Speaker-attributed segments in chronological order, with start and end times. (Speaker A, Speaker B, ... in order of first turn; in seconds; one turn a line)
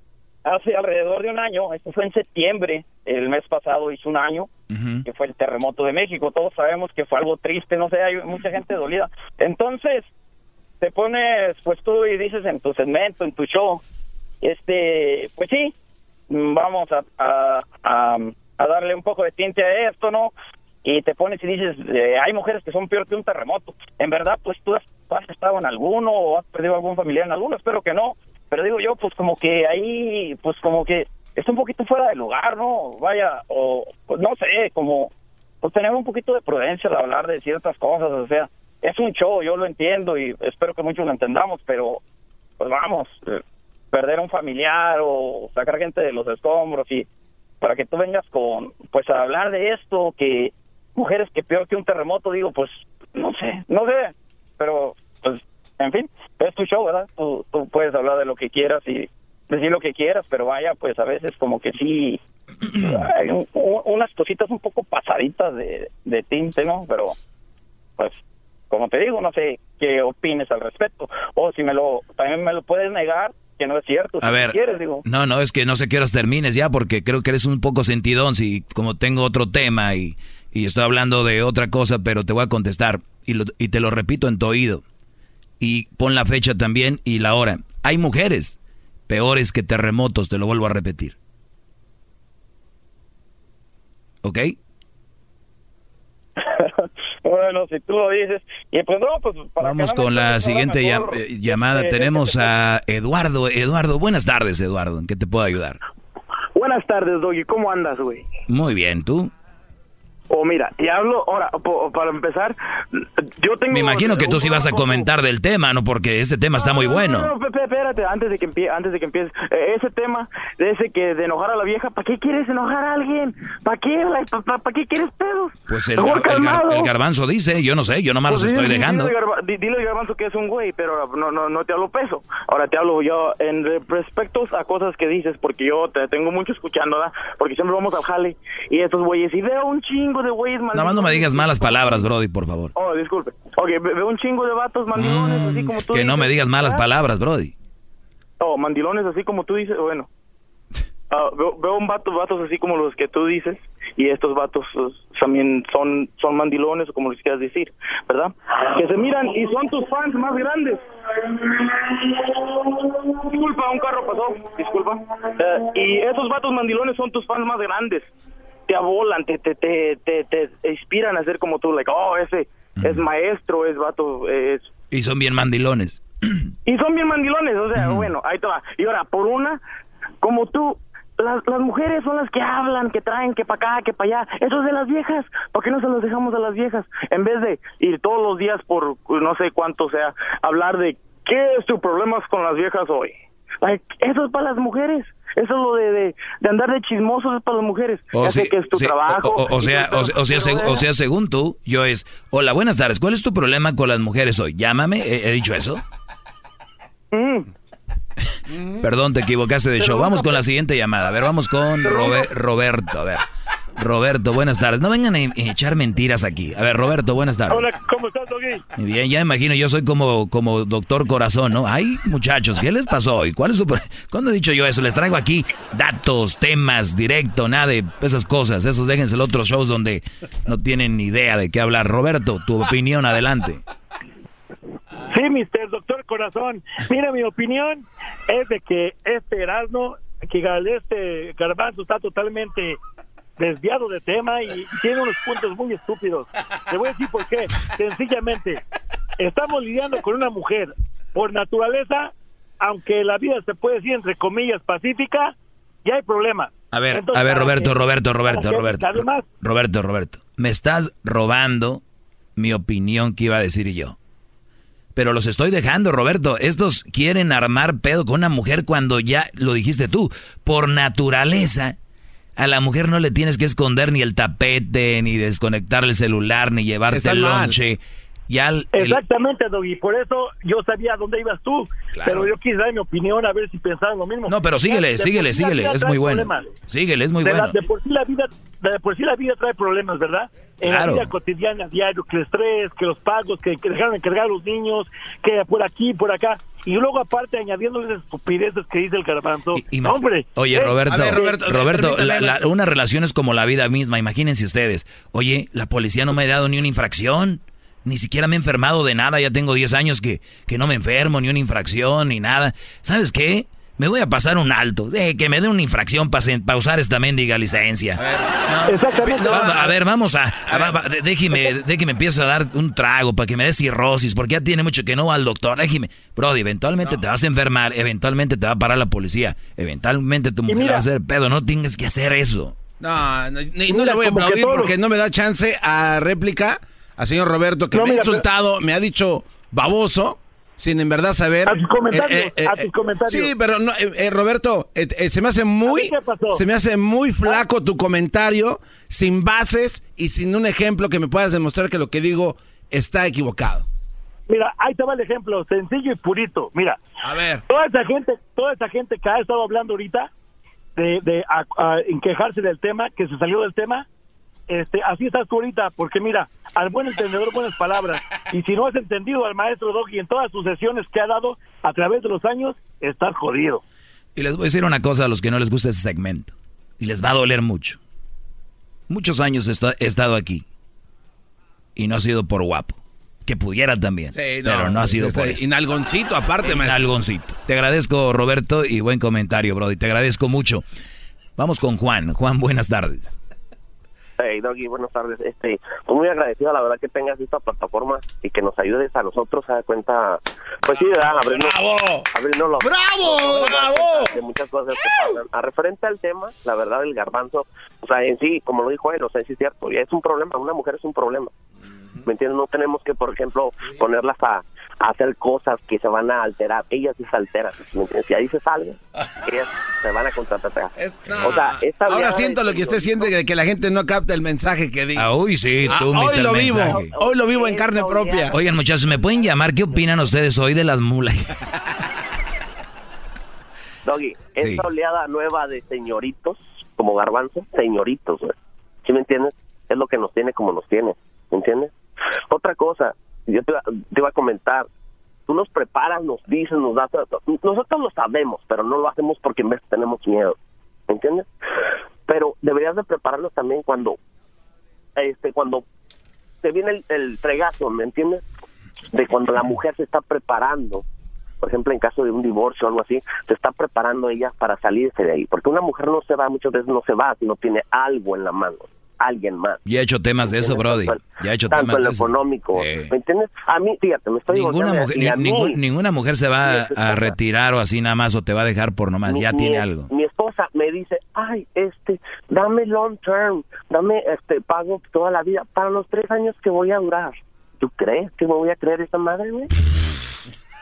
Speaker A: 0.4-4.5
Speaker B: 4.7-5.0
Speaker A: 5.0-10.1
Speaker A: 10.8-13.8
Speaker A: 14.4-15.7
Speaker A: 16.3-35.1
Speaker A: 35.6-42.0
Speaker A: 42.6-43.4
Speaker A: 43.9-47.0
Speaker A: 47.6-62.2
Speaker A: 62.7-67.1
Speaker A: 68.7-75.0
Speaker B: 74.2-84.8
Speaker B: 85.6-88.6
Speaker B: 89.1-91.2
Speaker B: 94.2-94.5
Speaker A: 96.4-102.5
Speaker B: 99.6-105.8
Speaker C: 106.5-108.2
Speaker B: 108.5-109.3
Speaker C: 110.3-115.0
Speaker B: 113.7-117.3
Speaker C: 116.6-126.9
Speaker B: 125.7-129.1
Speaker C: 128.3-141.9
Speaker B: 140.7-142.7
Speaker C: 142.8-146.8
Speaker B: 144.9-147.5
Speaker C: 148.4-150.1
Speaker C: 151.1-160.8
Speaker C: 163.2-168.1
Speaker C: 168.7-174.6
Speaker B: 172.8-173.0
Speaker B: 174.9-176.0
Speaker C: 176.7-179.6
Speaker B: 177.7-178.1
Speaker C: 180.2-200.8
Speaker B: 198.1-205.8
Speaker C: 207.1-207.4
Speaker B: 208.8-213.2
Speaker D: 209.8-210.2
Speaker D: 211.8-212.2
Speaker B: 213.8-217.7
Speaker D: 217.5-218.6
Speaker B: 218.8-233.6
Speaker D: 235.1-242.8
Speaker D: 243.4-248.6
Speaker D: 249.2-255.3
Speaker D: 255.8-257.8
Speaker B: 256.7-261.8
Speaker D: 258.3-259.2
Speaker B: 262.4-263.9
Speaker B: 264.9-271.8
Speaker B: 272.4-279.0
Speaker E: 276.9-277.5
Speaker D: 278.7-286.5
Speaker B: 281.9-282.3
Speaker B: 284.2-287.6
Speaker D: 287.2-301.3
Speaker B: 290.6-291.1
Speaker B: 299.5-332.5
Speaker E: 300.9-302.5
Speaker E: 318.0-319.8
Speaker D: 318.6-319.5
Speaker E: 320.5-320.8
Speaker D: 330.5-330.9
Speaker E: 332.8-353.6
Speaker D: 333.7-334.7
Speaker D: 337.7-338.2
Speaker D: 341.4-343.3
Speaker D: 345.6-346.4
Speaker D: 354.3-356.8
Speaker E: 357.0-357.4
Speaker D: 357.5-360.1
Speaker D: 360.8-363.8
Speaker D: 364.5-373.6
Speaker B: 374.1-377.8
Speaker B: 378.9-380.4
Speaker B: 381.8-385.4
Speaker E: 384.1-386.8
Speaker B: 386.4-390.6
Speaker B: 391.4-393.2
Speaker F: 394.2-411.3
Speaker E: 400.8-402.1
Speaker E: 402.6-404.2
Speaker F: 412.0-423.1
Speaker E: 420.8-425.1
Speaker B: 424.9-426.9
Speaker E: 425.7-428.3
Speaker F: 426.8-428.3
Speaker B: 428.3-431.3
Speaker F: 433.8-441.7
Speaker B: 434.4-434.6
Speaker F: 442.3-444.7
Speaker F: 445.3-450.4
Speaker F: 450.9-451.2
Speaker F: 452.1-454.0
Speaker F: 455.0-455.6
Speaker F: 456.4-458.2
Speaker F: 458.9-460.8
Speaker F: 461.4-469.6
Speaker B: 469.6-472.9
Speaker F: 470.2-475.6
Speaker B: 474.3-479.9
Speaker F: 476.4-477.1
Speaker F: 479.1-489.5